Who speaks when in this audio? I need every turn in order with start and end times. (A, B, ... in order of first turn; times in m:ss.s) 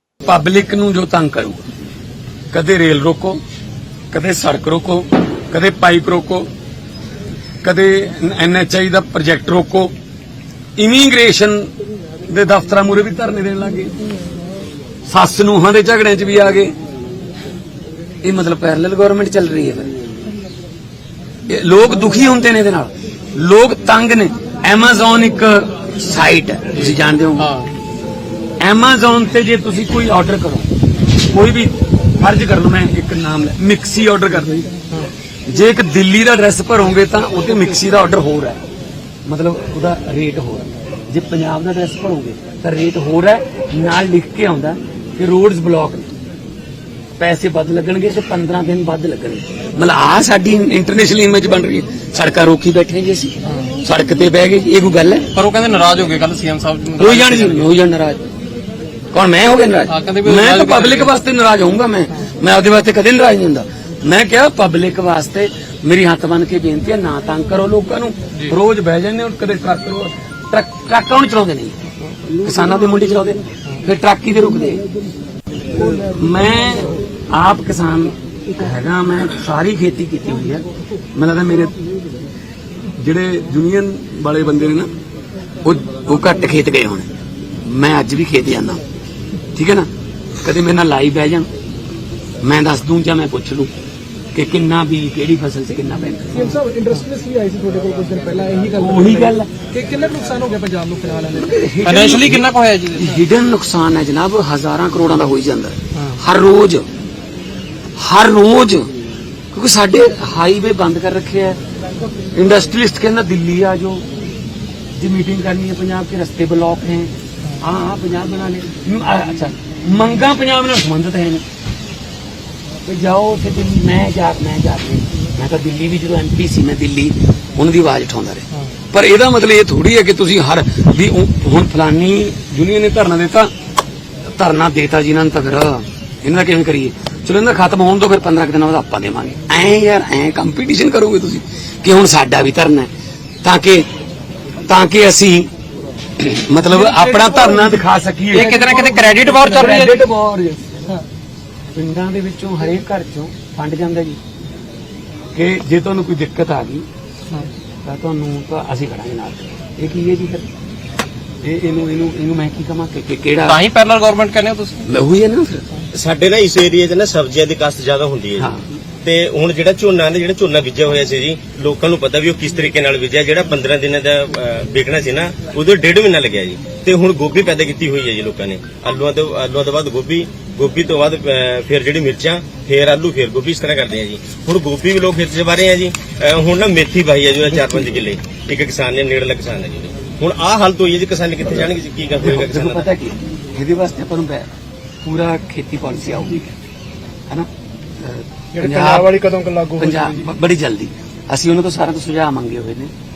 0:00.2-0:01.6 A
0:02.5-0:03.4 A
0:04.1-0:06.5 A
0:07.6-0:09.9 A
0:10.8-0:11.7 A
0:12.3-0:13.9 A
0:15.1-0:16.7 A
0:18.2-0:19.9 A
0:21.5-0:27.5 A
0:28.6-0:30.7 A
0:31.3-0:34.6 A
0:35.4-0:38.6 A
0:39.2-0:46.1 A
0:47.2-0:55.3 A
0:55.3-0:57.5 B
0:57.0-0:58.2 A
0:59.1-1:11.8 A
0:59.9-1:01.1 B
1:12.4-1:14.8 A
1:15.8-1:21.7 A
1:23.0-1:24.9 A
1:25.6-1:27.1 A
1:27.6-1:28.8 A
1:29.5-1:29.9 A
1:30.4-1:31.5 A
1:32.4-1:33.7 A
1:34.3-1:36.6 A
1:36.3-1:41.5 C
1:38.7-1:39.5 A
1:41.3-1:46.9 A
1:41.8-1:43.0 B
1:48.0-1:48.9 A
1:49.5-1:51.6 A
1:52.3-1:54.0 A
1:54.9-2:01.4 A
2:02.8-2:13.5 A
2:14.4-2:22.9 A
2:23.4-2:23.9 A
2:24.7-2:25.5 A
2:26.2-2:30.8 A
2:26.7-2:27.7 C
2:28.3-2:29.8 C
2:28.4-2:29.9 B
2:31.7-2:34.2 A
2:35.3-2:36.9 A
2:37.8-2:40.4 A
2:41.4-2:43.6 A
2:43.5-2:44.8 B
2:44.8-2:45.7 A
2:45.9-2:48.5 D
2:48.4-2:48.6 A
2:49.0-3:12.8 D
3:12.2-3:14.5 A
3:15.0-3:16.5 A
3:18.0-3:19.2 A
3:18.5-3:20.3 C
3:19.8-3:22.9 A